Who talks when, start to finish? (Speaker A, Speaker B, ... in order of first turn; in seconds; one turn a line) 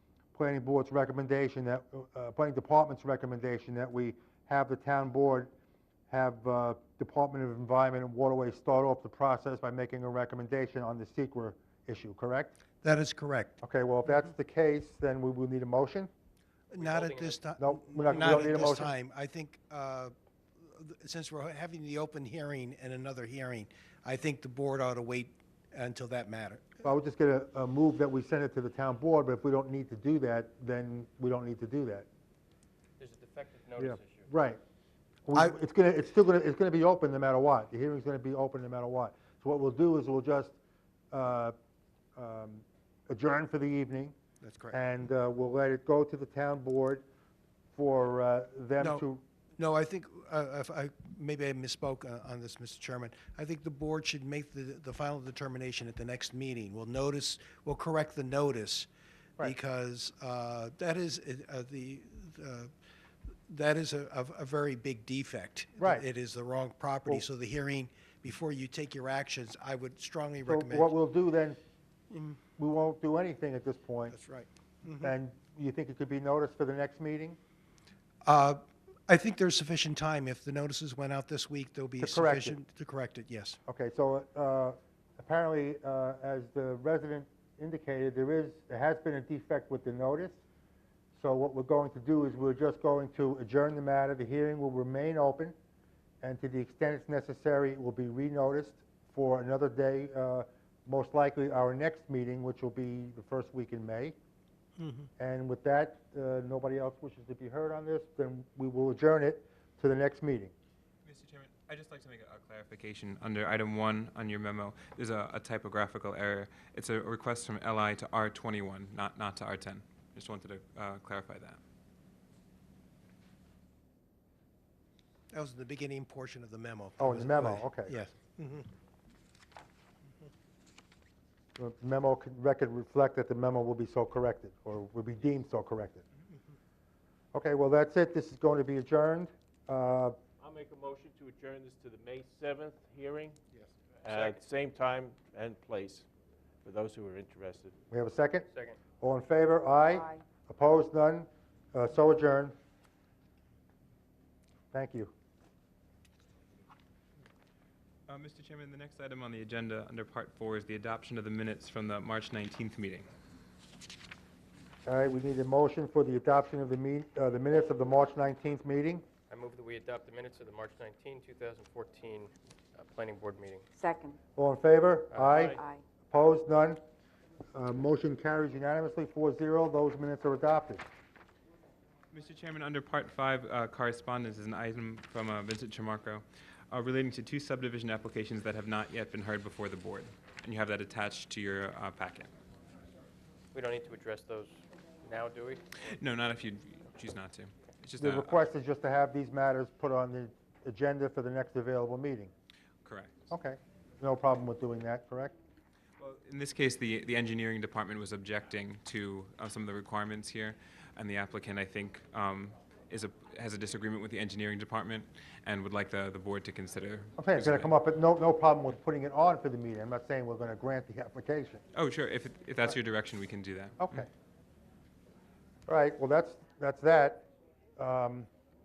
Speaker A: 0.3-5.5
Speaker A: 6.1-12.6
Speaker B: 12.8-13.6
Speaker A: 13.6-16.1
Speaker B: 16.7-26.8
Speaker C: 16.8-17.4
Speaker A: 17.6-18.9
Speaker A: 26.8-32.1
Speaker C: 33.0-34.3
Speaker A: 33.8-34.6
Speaker A: 35.3-40.5
Speaker A: 41.1-41.6
Speaker A: 42.2-44.1
Speaker B: 44.4-44.8
Speaker A: 44.7-47.0
Speaker A: 47.7-49.2
Speaker B: 49.6-58.9
Speaker B: 59.4-62.7
Speaker B: 63.5-70.9
Speaker A: 65.8-66.0
Speaker A: 70.5-71.6
Speaker B: 72.1-72.4
Speaker A: 72.6-74.2
Speaker B: 74.1-75.1
Speaker A: 75.0-77.4
Speaker B: 78.2-83.6
Speaker A: 82.0-82.6
Speaker A: 83.7-90.4
Speaker A: 91.2-95.6
Speaker A: 96.2-104.2
Speaker B: 104.8-105.1
Speaker A: 105.2-110.5
Speaker D: 111.0-121.6
Speaker B: 125.3-128.7
Speaker A: 127.0-128.0
Speaker A: 131.6-136.0
Speaker A: 137.3-140.2
Speaker E: 140.4-143.4
Speaker E: 144.0-146.1
Speaker C: 144.1-144.4
Speaker E: 146.6-147.7
Speaker A: 147.9-148.5
Speaker C: 148.5-148.8
Speaker A: 149.0-152.5
Speaker A: 154.7-155.1
Speaker D: 158.1-163.1
Speaker A: 164.9-169.1
Speaker C: 169.3-173.7
Speaker A: 174.4-175.6
Speaker C: 175.1-175.6
Speaker A: 176.1-176.8
Speaker A: 177.5-180.9
Speaker D: 182.1-192.3
Speaker C: 193.5-195.6
Speaker D: 195.8-198.4
Speaker A: 198.0-202.3
Speaker D: 202.8-203.1
Speaker A: 203.3-205.3
Speaker D: 206.0-217.7
Speaker A: 217.2-221.6
Speaker D: 221.7-224.0
Speaker A: 223.8-224.1
Speaker A: 225.7-227.3
Speaker A: 227.8-228.3